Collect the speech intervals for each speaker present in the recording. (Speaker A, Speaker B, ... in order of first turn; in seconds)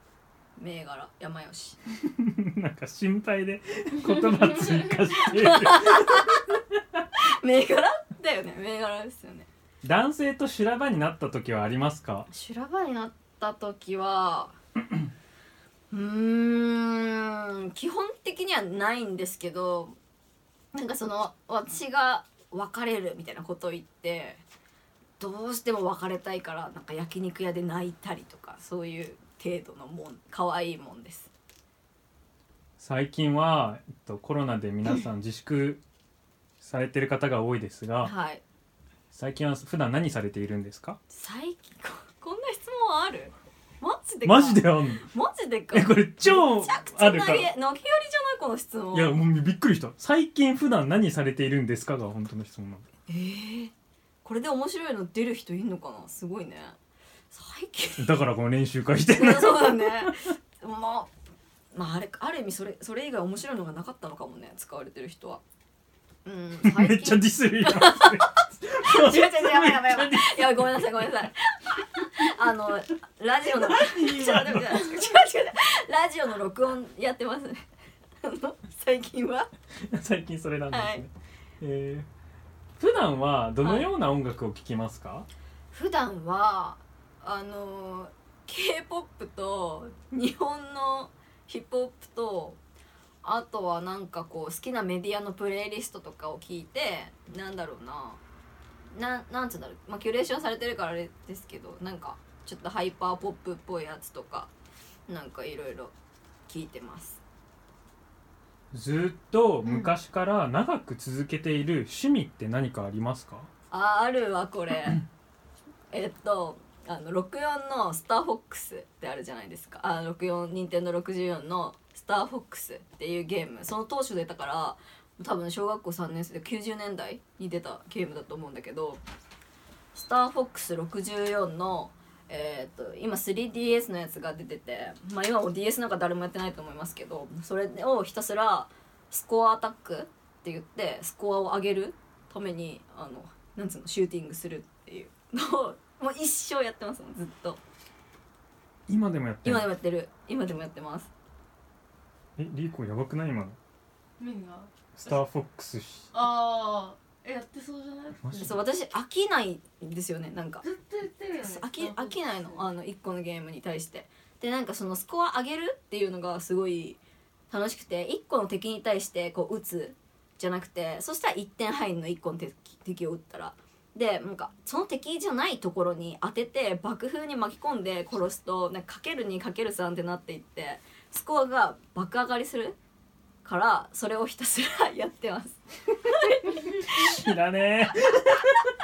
Speaker A: 0.6-1.8, 5.3-6.5, 7.2-9.5, 12.3-14.6, 15.9-20.0, 20.7-24.4, 25.2-31.3, 38.0-38.4, 41.1-49.1, 53.1-53.7, 54.2-56.8, 57.3-58.1, 59.1-61.1, 61.7-65.4, 66.2-77.7, 78.2-79.5, 80.7-81.0, 83.6-83.9, 85.7-92.6, 93.2-98.2, 98.9-104.5, 105.1-105.9, 106.5-107.2, 113.7-115.0, 115.9-129.0, 129.9-147.6, 149.4-151.1, 158.4-160.6, 161.4-167.0, 167.5-182.8, 183.4-187.1
Speaker B: 2.0-7.0, 9.8-12.3, 32.8-35.8, 36.6-38.1, 39.1-41.0, 44.2-45.0, 45.7-47.5, 48.9-52.9, 58.0-60.1, 66.6-71.1, 73.6-75.0, 79.9-82.1, 82.8-85.3, 108.7-113.5, 148.9-149.7, 152.4-153.6, 154.9-156.1, 158.2-158.6, 186.6-188.7
Speaker C: 154.2-155.2, 156.1-158.5, 160.6-162.6